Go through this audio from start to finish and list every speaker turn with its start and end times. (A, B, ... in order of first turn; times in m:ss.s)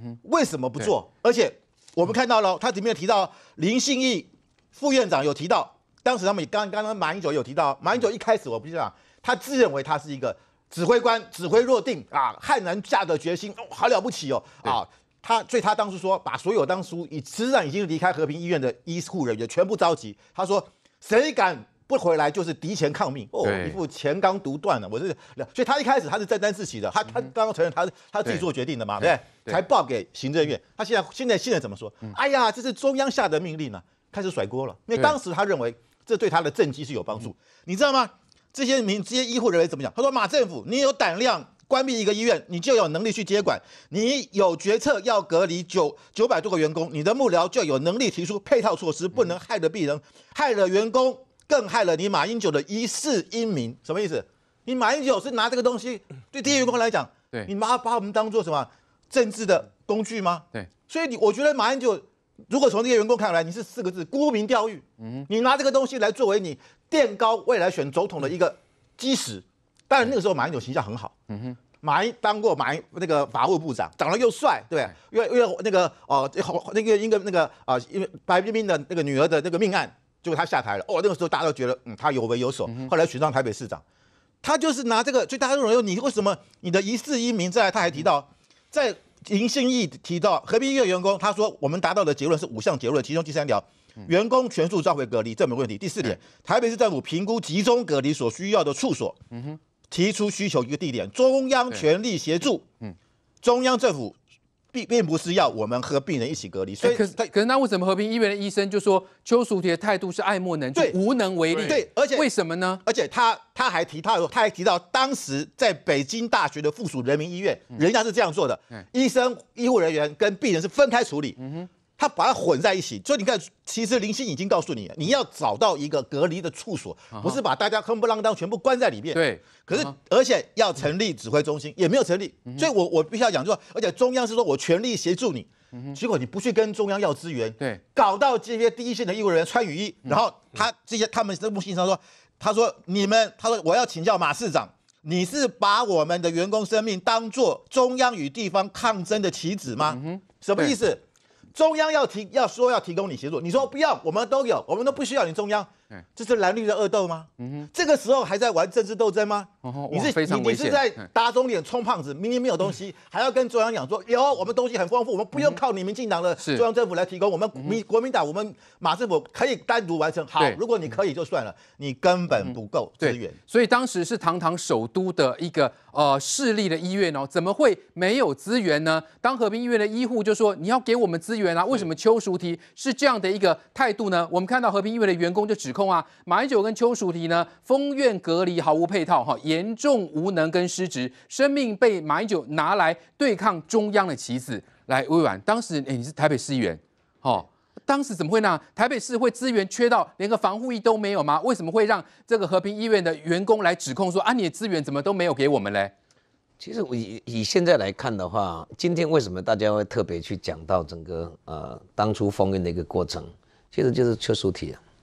0:00.2-1:11.1 A
0:23.4-0:23.8 B
1:11.7-1:23.8 A
1:24.4-1:39.2 A
1:39.9-1:42.6 A
1:43.4-1:44.1 A
1:44.7-1:47.3 A
1:46.8-1:52.8 B
1:50.7-1:52.3 A
1:52.8-2:01.4 A
2:02.0-2:31.0 A
2:09.1-2:09.8 B
2:29.9-2:30.7 B
2:31.5-2:53.4 A
2:39.6-2:40.9 B
2:53.0-3:25.9 B
3:26.6-3:34.8 C